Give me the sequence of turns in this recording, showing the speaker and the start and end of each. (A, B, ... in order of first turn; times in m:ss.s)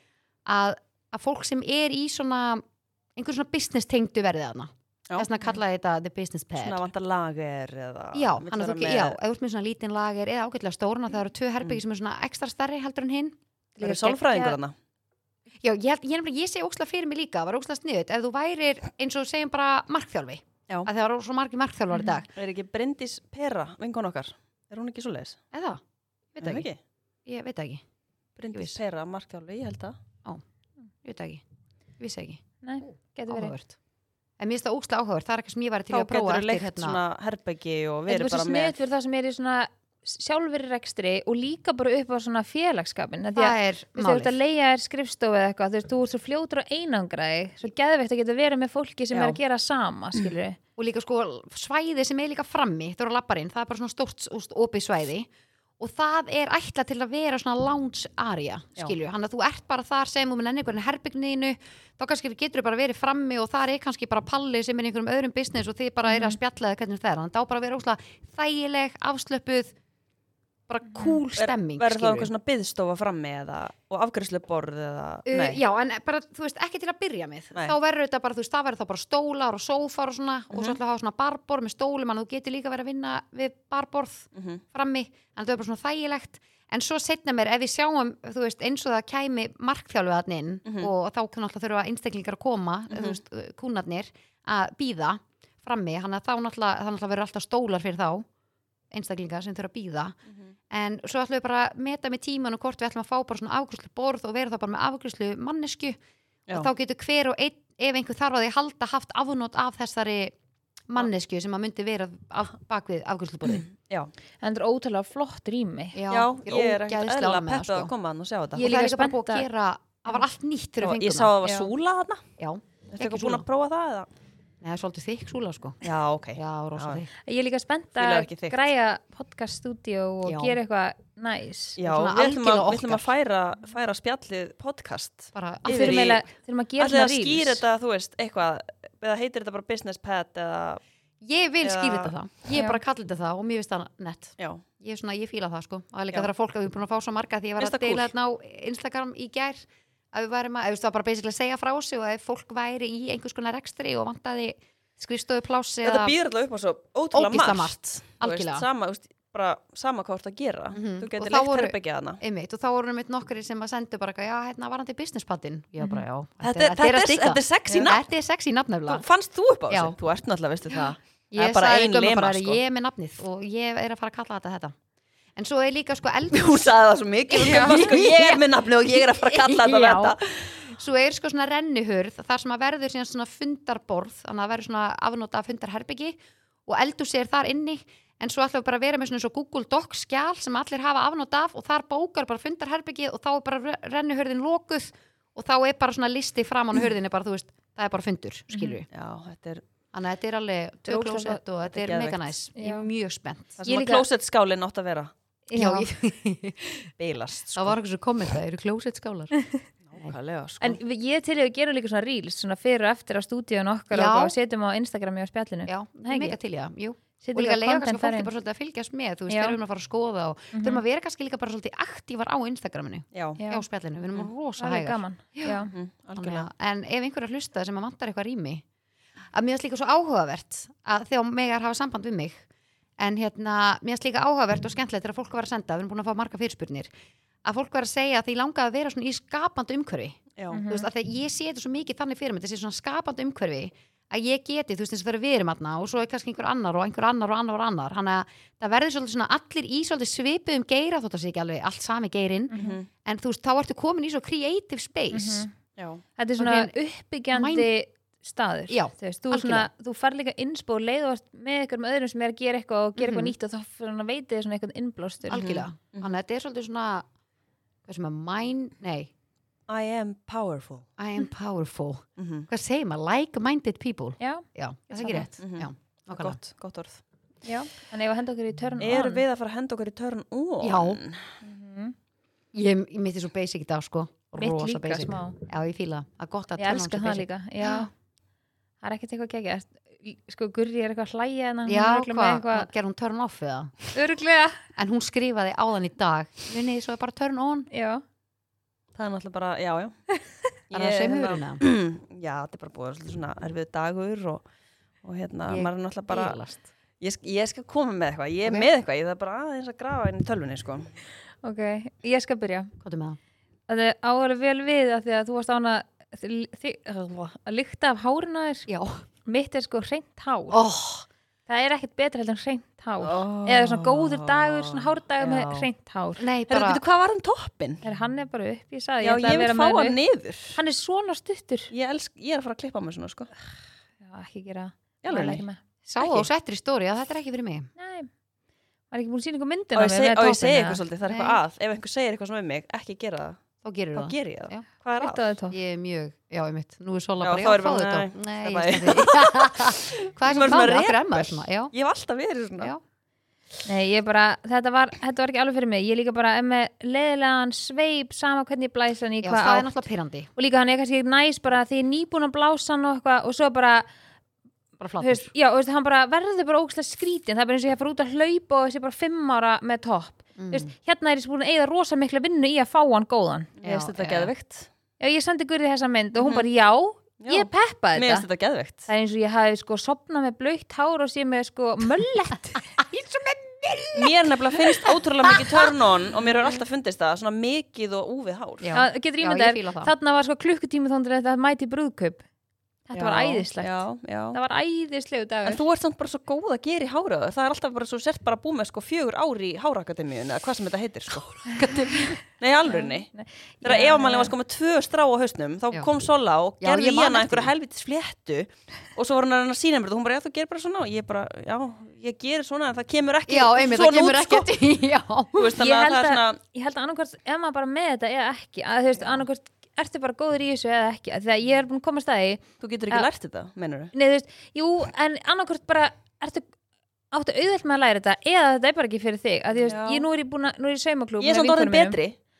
0:00.4-0:02.6 A
0:03.1-0:06.8 A
0:06.6-0:09.2 B
0:08.1-0:13.4 A
0:13.8-0:14.6 C
0:13.8-0:14.7 B
0:15.6-0:22.3 A
0:22.3-0:25.4 B
0:25.5-0:25.8 A
0:26.3-0:26.7 A
0:26.4-0:26.8 B
0:27.2-0:27.8 A
0:28.4-0:30.0 B
0:28.5-0:28.8 A
0:31.0-0:31.4 A
0:32.0-0:33.8 A
0:32.6-0:33.5 C
0:34.4-0:37.0 A
0:35.9-0:38.8 B
0:38.1-0:50.6 C
0:43.4-0:44.3 A
0:49.1-0:49.4 B
0:50.8-1:09.8 A
1:06.1-1:06.4 C
1:10.7-1:12.3 A
1:10.9-1:11.2 C
1:11.3-1:15.6 B
1:15.3-1:38.3 A
1:20.5-1:20.8 B
1:24.3-1:24.6 B
1:30.6-1:30.9 B
1:32.9-1:33.2 B
1:38.9-1:40.2 A
1:40.7-1:46.0 A
1:46.5-1:50.3 A
1:50.9-1:53.6 A
1:53.4-1:54.1 B
1:54.4-1:56.0 C
1:55.9-1:57.9 A
1:56.1-1:58.7 B
1:58.6-1:59.5 C
1:58.6-2:01.3 A
2:00.8-2:02.2 B
2:01.4-2:01.7 C
2:02.4-2:03.4 A
2:02.9-2:04.1 B
2:04.6-2:05.8 A
2:05.8-2:07.0 B
2:06.3-2:07.1 A
2:07.2-2:11.8 C
2:08.0-2:08.7 B
2:10.2-2:10.6 A
2:11.8-2:16.2 B
2:11.8-2:13.1 A
2:15.3-2:16.2 A
2:15.6-2:17.6 C
2:16.8-2:20.8 B
2:21.2-2:36.1 A
2:21.6-2:22.1 B
2:22.5-2:22.8 C
2:24.4-2:24.6 B
2:27.6-2:28.1 B
2:35.8-2:42.2 B
2:37.1-2:38.6 A
2:40.7-2:49.0 A
2:46.4-2:48.0 B
2:48.9-2:52.6 B
2:49.7-2:50.0 A
2:51.3-2:54.8 A
2:55.3-2:56.8 A
2:56.3-3:00.6 B
2:57.3-2:57.8 C
2:57.4-3:18.9 A
3:18.5-3:18.8 C
3:18.9-3:19.6 B
3:19.9-3:23.6 A
3:20.9-3:21.4 C
3:21.7-3:22.3 B
3:22.6-3:22.8 C
3:23.6-3:25.1 B
3:23.6-3:24.0 C
3:25.5-3:25.9 C
3:25.5-3:26.9 A
3:27.0-3:27.8 B
3:27.5-3:29.3 A
3:29.8-3:30.8 B
3:30.6-3:36.4 C
3:33.9-3:34.3 A
3:35.7-3:48.6 A
3:37.2-3:38.3 C
3:39.3-3:39.6 C
3:40.5-3:40.8 C
3:43.1-3:43.4 B
3:43.4-3:43.6 C
3:44.6-3:45.7 C
3:45.7-3:46.5 B
3:49.3-3:52.4 A
3:53.0-3:56.9 A
3:57.4-4:15.4 A
4:00.4-4:00.6 B
4:00.5-4:00.9 C
4:12.5-4:12.8 C
4:12.6-4:12.9 B
4:15.1-4:15.5 C
4:15.8-4:16.0 B
4:16.2-4:25.6 C
4:16.4-4:16.7 A
4:17.3-4:17.7 A
4:18.7-4:19.7 A
4:23.0-4:23.3 A
4:25.3-4:27.0 A
4:25.3-4:26.2 B
4:27.8-4:29.1 A
4:29.7-4:30.8 B
4:31.0-4:36.4 A
4:32.2-4:32.5 B
4:34.2-4:35.3 C
4:35.4-4:37.0 B
4:37.4-4:39.2 C
4:38.8-4:41.3 B
4:40.6-4:41.0 A
4:41.4-4:41.9 C
4:42.5-4:47.9 A
4:44.4-4:45.4 C
4:46.6-4:47.9 C
4:48.8-4:52.7 C
4:51.7-4:53.8 A
4:53.9-4:54.6 C
4:54.8-4:57.7 A
4:57.7-4:58.0 C
4:58.9-5:00.0 B
5:00.7-5:04.4 B
5:00.7-5:01.6 A
5:05.0-5:06.4 B
5:05.5-5:06.6 A
5:07.0-5:10.9 B
5:11.4-5:12.7 C
5:12.8-5:13.2 A
5:13.7-5:18.7 C
5:18.7-5:19.0 A
5:19.2-5:20.6 C
5:20.5-5:21.1 A
5:21.5-5:26.2 C
5:23.0-5:25.7 B
5:26.2-5:26.8 A
5:26.5-5:27.8 B
5:27.8-5:30.0 C
5:29.0-5:30.6 B
5:30.5-5:31.7 C
5:31.7-5:33.3 B
5:34.0-5:35.6 C
5:35.0-5:35.4 B
5:35.9-5:37.7 A
5:36.0-5:36.3 B
5:37.8-5:38.1 C
5:38.9-5:40.8 C
5:39.7-5:43.4 B
5:41.0-5:41.4 A
5:43.6-5:44.6 A
5:43.9-5:45.2 B
5:45.0-5:45.6 C
5:45.5-5:51.7 A
5:47.2-5:52.7 B
5:53.6-5:59.7 C
5:59.2-6:00.3 A
6:00.4-6:03.9 C
6:04.8-6:05.3 A
6:05.0-6:13.5 C
6:10.4-6:10.7 A
6:13.6-6:14.7 B
6:13.6-6:14.3 A
6:15.0-6:18.2 C
6:16.2-6:16.4 B
6:17.2-6:18.9 B
6:18.9-6:22.6 C
6:22.8-6:25.7 A
6:23.9-6:28.7 B
6:28.6-6:29.9 A
6:28.7-6:32.2 C
6:32.9-6:35.6 C
6:32.9-6:34.4 B
6:35.4-6:41.6 B
6:41.5-6:42.2 A
6:42.2-6:43.1 B
6:42.7-6:44.3 C
6:43.6-6:54.5 B
6:46.6-6:47.5 A
6:53.3-6:55.5 A
6:55.4-6:56.4 B
6:55.6-7:03.1 C
7:02.6-7:03.9 B
7:03.9-7:06.5 C
7:07.1-7:12.0 C
7:09.6-7:10.0 B
7:11.2-7:12.1 B